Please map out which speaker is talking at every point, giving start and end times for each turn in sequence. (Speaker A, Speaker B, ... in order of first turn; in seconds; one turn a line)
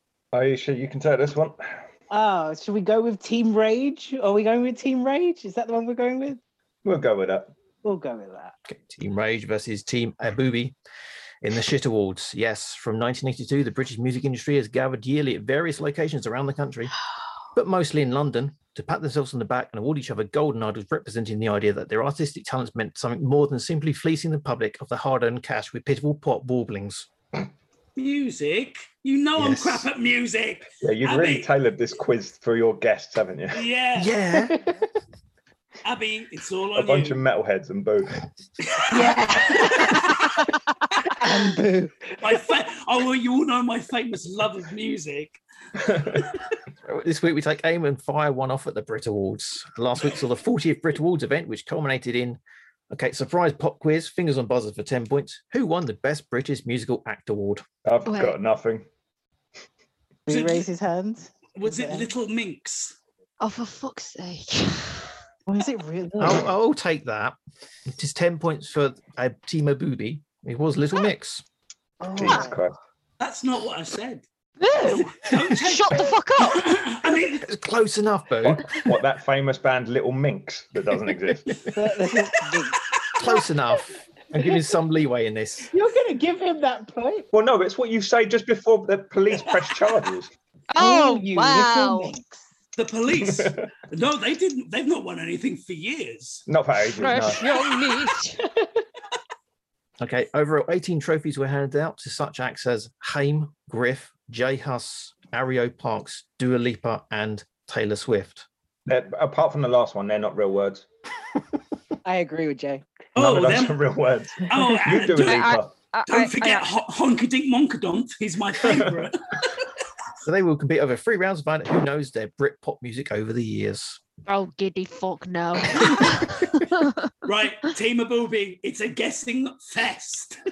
Speaker A: 0.3-1.6
Speaker B: 2.1-6.4
Speaker A: 6.8-7.5
Speaker B: 7.8-8.5
Speaker C: 8.7-10.7
Speaker C: 11.4-16.9
Speaker C: 17.5-27.1
Speaker D: 27.9-31.5
Speaker C: 29.3-29.9
Speaker A: 30.8-33.6
Speaker D: 33.5-34.2
Speaker C: 34.0-34.7
Speaker B: 34.4-34.7
Speaker D: 35.8-37.2
Speaker A: 36.7-38.3
Speaker D: 38.6-39.0
Speaker B: 38.9-40.1
Speaker E: 38.9-40.4
Speaker B: 41.0-42.2
Speaker D: 42.2-45.4
Speaker A: 45.9-46.2
Speaker C: 46.8-52.4
Speaker C: 52.9-57.6
Speaker A: 57.8-58.9
Speaker E: 58.1-58.4
Speaker B: 60.3-62.1
Speaker D: 60.3-60.7
Speaker D: 61.5-63.0
Speaker E: 63.4-65.1
Speaker B: 65.5-66.5
Speaker C: 66.2-67.4
Speaker C: 67.9-71.4
Speaker B: 72.0-72.6
Speaker A: 72.1-72.7
Speaker D: 73.2-74.2
Speaker E: 74.6-76.9
Speaker D: 74.8-77.5
Speaker C: 77.4-78.7
Speaker A: 78.4-81.6
Speaker B: 81.7-82.8
Speaker C: 83.2-85.7
Speaker B: 85.7-87.3
Speaker A: 87.3-90.3
Speaker E: 90.7-92.1
Speaker B: 90.8-92.5
Speaker D: 92.8-96.4
Speaker A: 93.3-93.6
Speaker A: 96.5-97.4
Speaker E: 97.0-98.4
Speaker B: 98.4-98.8
Speaker C: 100.0-108.5
Speaker A: 108.9-110.8
Speaker B: 112.0-112.9
Speaker D: 113.2-113.8
Speaker A: 113.2-115.7
Speaker D: 114.4-115.5
Speaker E: 115.2-116.7
Speaker D: 116.1-119.6
Speaker C: 120.2-124.0
Speaker E: 124.3-127.0
Speaker D: 127.2-130.4